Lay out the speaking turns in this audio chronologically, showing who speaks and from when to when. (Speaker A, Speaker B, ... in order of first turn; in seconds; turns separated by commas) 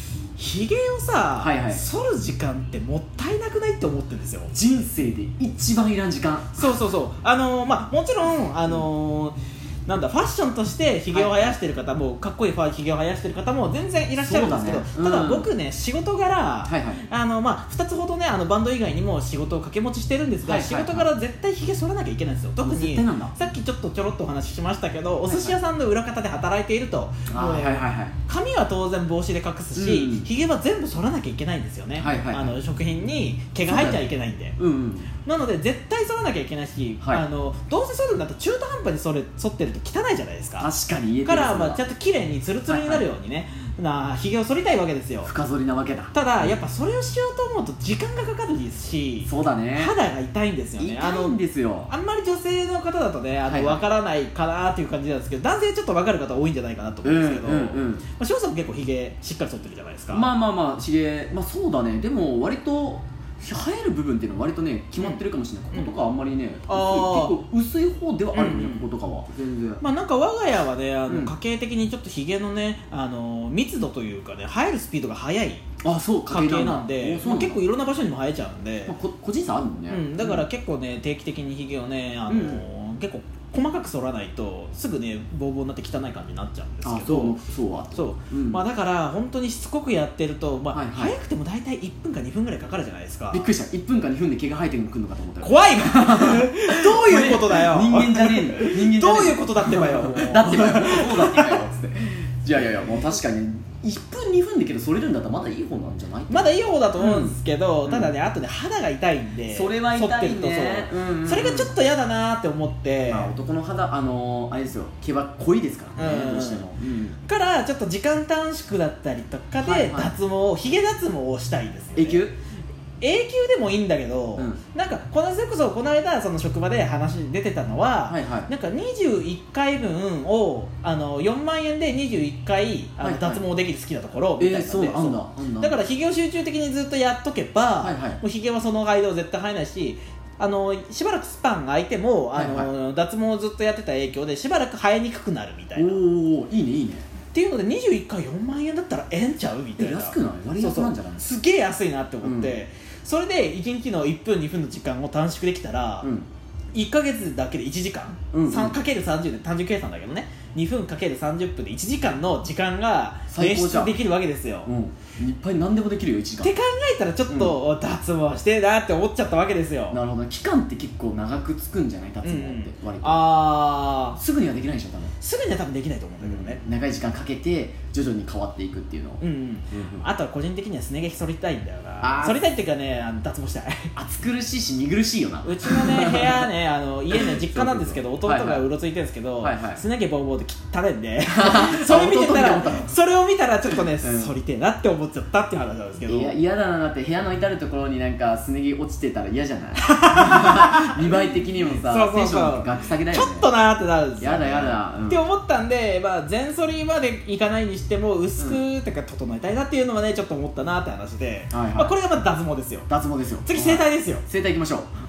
Speaker A: 0.4-4.5, Speaker B: 1.4-1.9, Speaker B: 4.5-6.7, Speaker A: 6.6-34.6, Speaker B: 11.1-11.6, Speaker B: 14.2-15.5, Speaker B: 16.7-17.0, Speaker B: 20.4-21.1, Speaker B: 22.6-23.3, Speaker B: 25.3-25.6, Speaker B: 27.3-28.1, Speaker B: 29.8-30.3, Speaker B: 31.9-32.6, Speaker B: 33.6-34.1, Speaker B: 34.6-35.1, Speaker A: 35.2-40.7, Speaker B: 40.6-41.8, Speaker A: 41.2-45.3, Speaker B: 42.7-43.1, Speaker B: 45.2-46.5, Speaker A: 46.1-51.4, Speaker B: 49.2-49.9, Speaker B: 50.8-51.9, Speaker A: 51.9-60.3, Speaker B: 53.5-53.8, Speaker B: 57.0-58.0, Speaker B: 60.1-69.8, Speaker A: 66.7-67.4, Speaker A: 68.3-68.9, Speaker A: 69.8-75.7, Speaker B: 71.1-71.3, Speaker B: 75.8-77.6, Speaker A: 76.3-79.0, Speaker B: 78.9-80.4, Speaker A: 79.9-87.4, Speaker B: 82.3-82.6, Speaker B: 86.8-88.6, Speaker A: 88.0-93.5, Speaker B: 90.7-91.2, Speaker B: 93.3-108.2, Speaker A: 95.4-101.6, Speaker A: 106.3-113.3, Speaker B: 109.5-111.7, Speaker B: 113.1-117.2, Speaker A: 116.0-116.6, Speaker A: 117.3-122.2, Speaker B: 119.6-120.1, Speaker B: 122.0-122.4, Speaker A: 123.0-146.0, Speaker B: 128.1-128.5, Speaker B: 133.0-133.4, Speaker B: 134.4-135.8, Speaker B: 137.8-138.2, Speaker B: 142.3-142.7, Speaker B: 145.8-147.1, Speaker A: 147.3-156.1, Speaker B: 149.8-151.2, Speaker B: 152.2-152.6, Speaker B: 156.0-156.3, Speaker A: 156.7-164.7, Speaker B: 158.3-158.8, Speaker B: 163.3-164.0, Speaker B: 164.7-166.5, Speaker A: 166.4-170.0, Speaker B: 167.3-167.6, Speaker B: 169.9-173.3, Speaker A: 172.2-174.2, Speaker B: 174.2-175.1, Speaker A: 175.2-176.6, Speaker B: 176.2-180.1, Speaker A: 179.2-183.9, Speaker B: 182.0-182.4, Speaker B: 183.9-186.4, Speaker A: 185.4-196.4, Speaker B: 187.1-188.6, Speaker B: 189.4-189.8, Speaker B: 191.3-192.9, Speaker B: 193.8-194.3, Speaker B: 196.1-203.5, Speaker A: 199.8-201.0, Speaker A: 201.8-212.9, Speaker B: 204.2-205.2, Speaker B: 211.5-211.9, Speaker B: 212.9-214.9, Speaker A: 213.5-214.2